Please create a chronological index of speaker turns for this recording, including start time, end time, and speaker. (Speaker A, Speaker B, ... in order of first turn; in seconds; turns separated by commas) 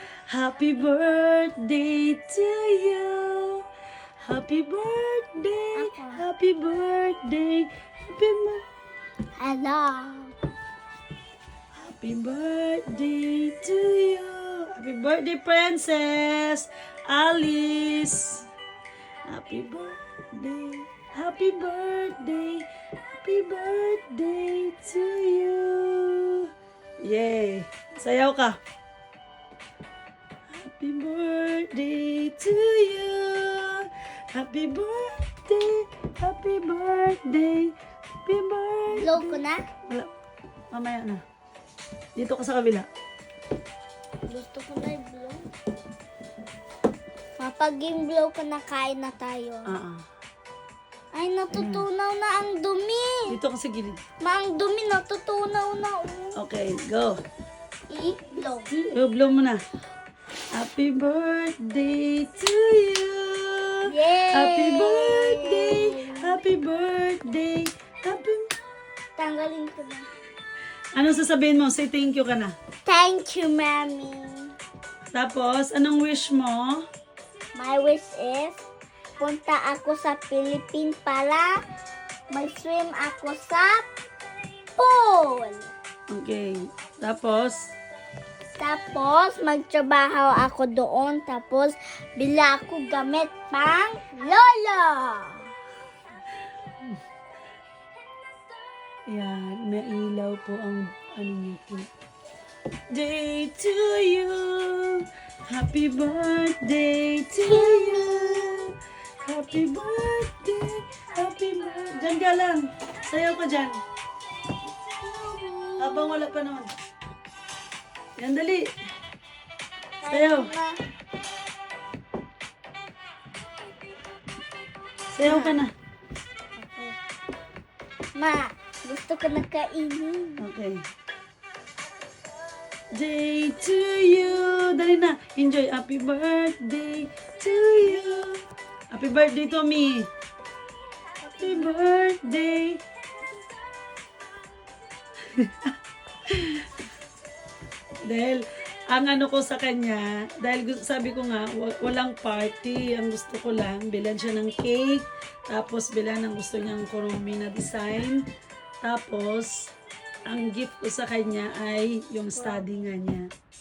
Speaker A: 0.3-3.6, Speaker A: 4.2-8.6, Speaker B: 5.8-6.2, Speaker B: 9.4-10.3, Speaker A: 11.8-18.4, Speaker A: 19.2-22.6, Speaker A: 23.2-26.5, Speaker A: 27.0-28.6, Speaker A: 30.5-37.7, Speaker A: 38.2-40.1, Speaker B: 38.9-39.6, Speaker A: 40.7-41.2, Speaker A: 42.2-42.9, Speaker B: 44.3-45.5, Speaker B: 47.4-49.8, Speaker A: 49.7-50.0, Speaker B: 51.1-53.4, Speaker A: 51.5-51.9, Speaker A: 53.3-54.0, Speaker B: 54.2-56.4, Speaker A: 56.3-57.2, Speaker B: 57.9-58.7, Speaker A: 58.8-59.6, Speaker A: 60.5-68.5, Speaker B: 63.9-66.4, Speaker B: 69.2-70.1, Speaker A: 70.9-72.5, Speaker B: 72.8-74.5, Speaker A: 75.1-76.8, Speaker B: 77.5-78.6, Speaker B: 79.2-81.5, Speaker B: 82.3-83.9, Speaker B: 84.8-85.7, Speaker A: 86.1-87.7, Speaker B: 88.6-95.4, Speaker A: 99.1-101.8, Speaker A: 102.9-113.8, Speaker B: 107.4-108.6, Speaker B: 115.0-116.2, Speaker A: 115.8-116.7, Speaker A: 118.2-118.6, Speaker B: 120.0-120.7, Speaker A: 120.1-120.5, Speaker A: 125.1-125.7, Speaker B: 125.2-125.6, Speaker B: 126.6-126.9, Speaker B: 128.2-130.4, Speaker A: 130.4-130.8, Speaker A: 132.9-138.4, Speaker A: 138.9-140.1, Speaker A: 141.3-142.8, Speaker A: 145.3-145.7, Speaker A: 146.3-146.7, Speaker A: 148.0-158.2, Speaker A: 158.8-159.5, Speaker A: 160.3-163.3, Speaker B: 162.3-162.7